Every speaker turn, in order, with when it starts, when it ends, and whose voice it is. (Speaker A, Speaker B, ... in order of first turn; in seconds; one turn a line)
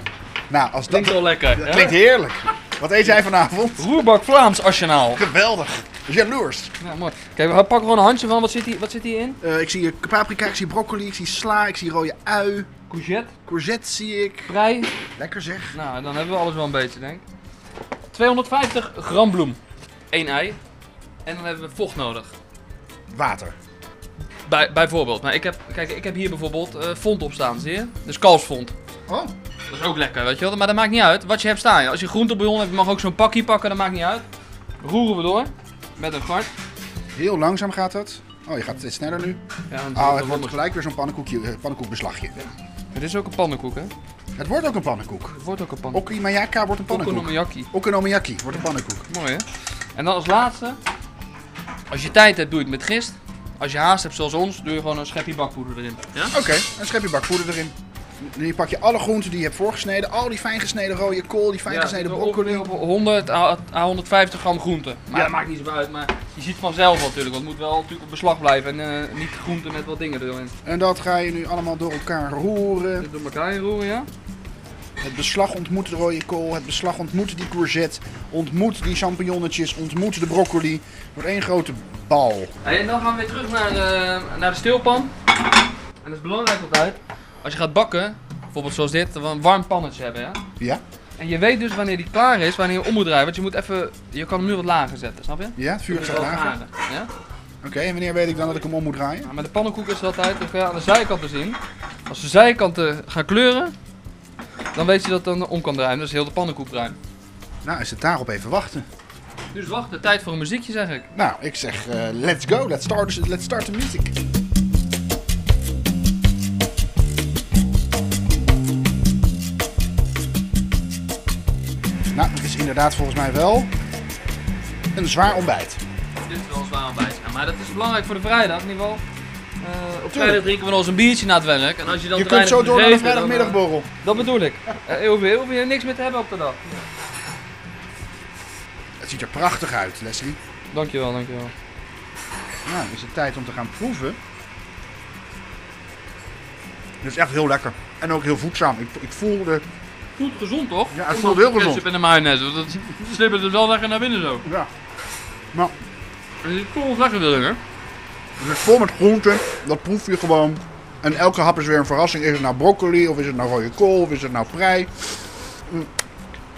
Speaker A: 0.5-3.9
Speaker B: 0.9-1.9
Speaker B: 3.8-5.2
Speaker A: 5.2-6.7
Speaker B: 6.8-9.4
Speaker A: 9.4-12.7
Speaker B: 12.9-13.3
Speaker A: 13.4-14.5
Speaker B: 14.5-14.9
Speaker A: 15.2-15.8
Speaker B: 15.7-17.2
Speaker B: 18.1-19.6
Speaker B: 20.1-20.6
Speaker B: 21.2-22.3
Speaker A: 23.1-23.5
Speaker B: 24.4-28.7
Speaker A: 29.1-29.3
Speaker B: 29.7-34.3
Speaker B: 34.8-36.5
Speaker A: 37.1-39.4
Speaker B: 39.7-40.6
Speaker A: 39.9-42.3
Speaker B: 42.4-43.9
Speaker A: 44.4-45.3
Speaker B: 45.3-46.0
Speaker A: 45.9-49.1
Speaker B: 46.9-47.7
Speaker B: 49.1-50.8
Speaker B: 51.9-56.4
Speaker A: 56.3-62.7
Speaker B: 61.6-70.5
Speaker A: 70.6-73.1
Speaker B: 73.0-74.1
Speaker A: 75.0-82.5
Speaker B: 82.6-85.1
Speaker B: 86.0-90.4
Speaker B: 91.2-97.1
Speaker A: 95.5-96.6
Speaker A: 97.6-99.3
Speaker B: 99.2-103.7
Speaker B: 104.7-107.0
Speaker A: 107.6-108.8
Speaker B: 109.5-111.1
Speaker A: 111.1-114.1
Speaker A: 122.1-123.7
Speaker A: 124.9-125.8
Speaker B: 126.3-129.0
Speaker B: 129.6-136.8
Speaker A: 130.1-130.4
Speaker A: 132.1-133.9
Speaker A: 139.0-140.4
Speaker B: 140.7-141.5
Speaker A: 142.7-144.2
Speaker A: 147.0-149.6
Speaker B: 150.2-154.4
Speaker A: 150.9-151.8
Speaker A: 154.4-154.7
Speaker B: 156.4-157.6
Speaker A: 158.4-164.9